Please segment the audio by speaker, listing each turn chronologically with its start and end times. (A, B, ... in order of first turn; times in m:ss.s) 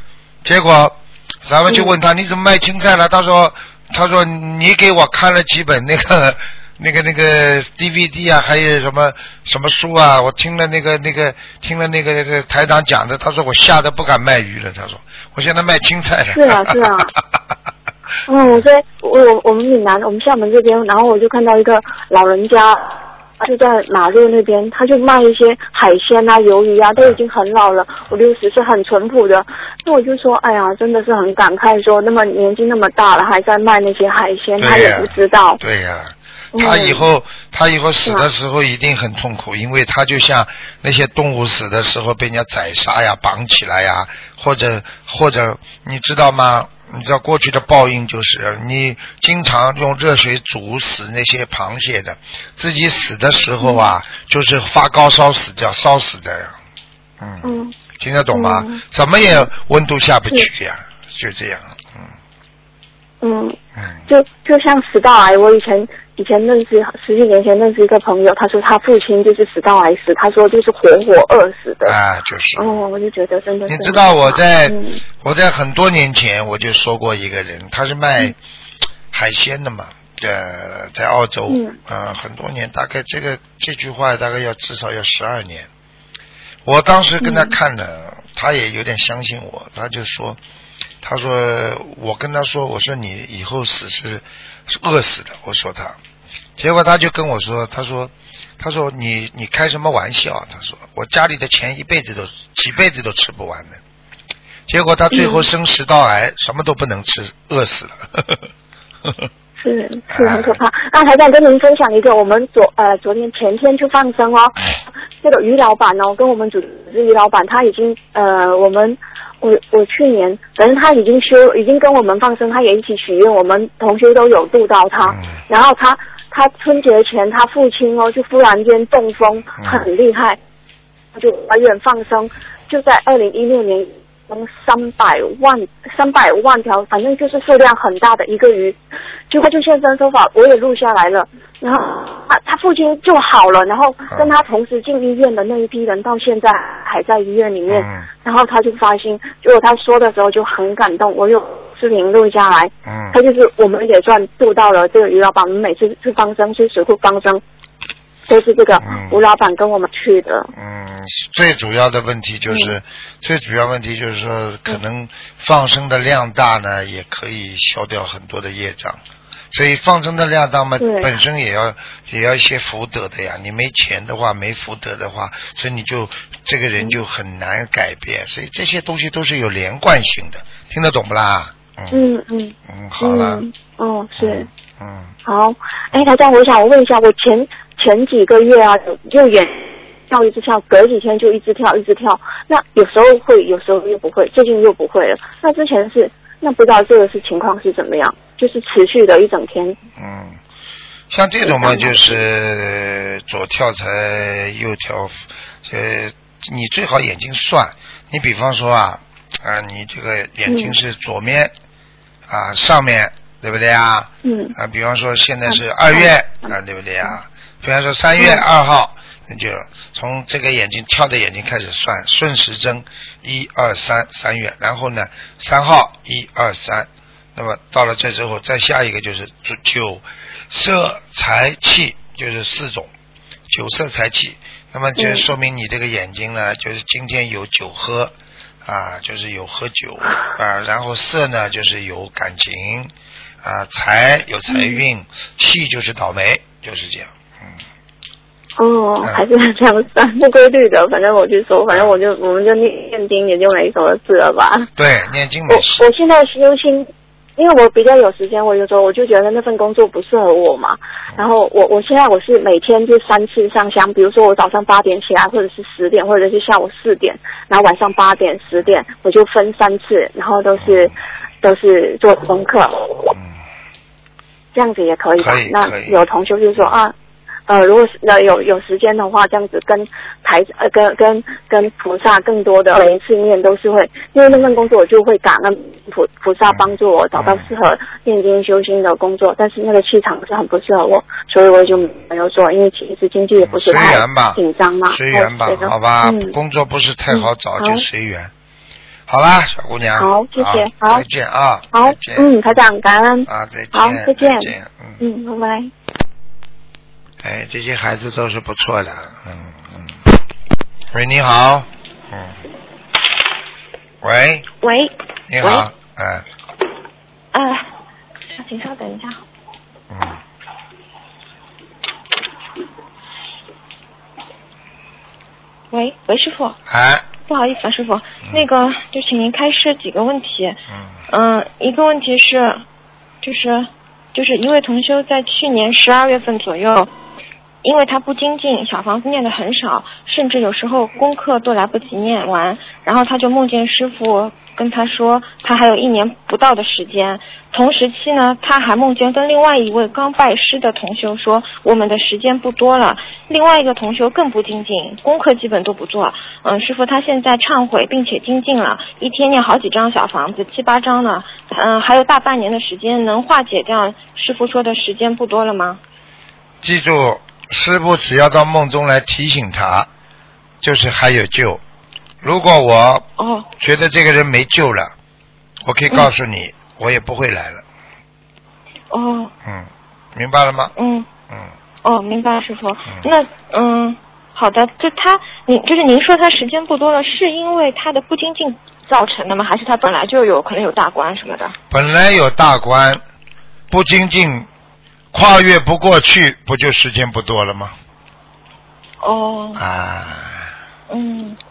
0:00.4-0:17.1 A
0:16.3-0:17.1 B
0:18.3-0:35.6 B
0:34.6-0:56.5 A
0:36.5-0:37.0 B
0:53.6-0:53.9 B
0:57.2-1:02.1 A
0:57.4-0:57.7 B
0:58.3-0:59.5 B
1:03.2-1:12.0 B
1:03.8-1:04.0 A
1:11.8-1:12.8 A
1:12.6-1:15.0 B
1:13.7-1:18.4 A
1:19.1-1:25.7 A
1:21.5-1:21.8 B
1:26.6-1:30.4 A
1:27.2-1:27.5 B
1:31.0-1:36.0 A
1:36.6-1:43.8 A
1:44.7-1:48.4 A
1:45.1-1:45.5 B
1:49.6-2:10.4 B
1:50.1-1:50.6 A
2:11.1-2:18.8 B
2:19.3-2:37.4 B
2:27.7-2:28.0 A
2:32.8-2:33.2 A
2:38.3-2:40.5 B
2:38.8-2:39.2 A
2:40.5-2:49.0 A
2:42.5-2:42.7 B
2:49.5-3:02.0 A
2:50.8-2:51.1 B
3:01.9-3:04.5 B
3:02.7-3:03.4 A
3:04.2-3:05.1 A
3:05.2-3:19.8 B
3:20.0-3:20.4 A
3:21.1-3:31.5 A
3:21.4-3:22.1 B
3:30.5-3:30.7 B
3:32.3-3:52.9 A
3:34.2-3:34.5 B
3:35.5-3:36.5 B
3:53.5-3:58.1 A
3:55.0-3:55.3 B
3:58.6-4:02.9 A
4:03.4-4:07.5 A
4:04.5-4:04.8 B
4:08.6-4:14.7 B
4:11.7-4:12.0 A
4:14.8-4:15.8 A
4:15.5-4:33.1 B
4:34.5-4:36.9 B
4:35.2-4:36.7 A
4:37.5-4:56.3 B
4:46.5-4:47.5 A
4:53.4-4:58.3 A
4:57.1-4:57.8 B
4:59.1-5:02.3 A
5:00.0-5:01.0 B
5:01.7-5:05.7 B
5:03.3-5:05.0 A
5:07.2-5:10.1 A
5:10.9-5:12.4 A
5:14.0-5:14.5 A
5:14.6-5:15.7 C
5:15.3-5:16.2 A
5:17.3-5:17.7 C
5:18.3-5:19.2 C
5:19.9-5:20.2 A
5:25.7-5:26.6 C
5:26.7-5:27.0 A
5:27.2-5:32.6 C
5:33.2-5:36.9 C
5:37.6-6:05.8 C
6:06.6-6:09.9 A
6:10.6-6:11.6 A
6:12.2-6:13.0 A
6:13.2-6:13.5 C
6:13.6-6:14.9 A
6:15.6-6:17.6 A
6:18.9-6:19.3 C
6:19.4-6:20.7 A
6:20.8-6:21.1 C
6:21.8-6:31.5 C
6:31.7-6:33.0 A
6:33.7-6:34.5 A
6:35.1-6:37.7 A
6:39.0-6:39.6 C
6:39.6-6:40.5 A
6:40.9-6:41.4 C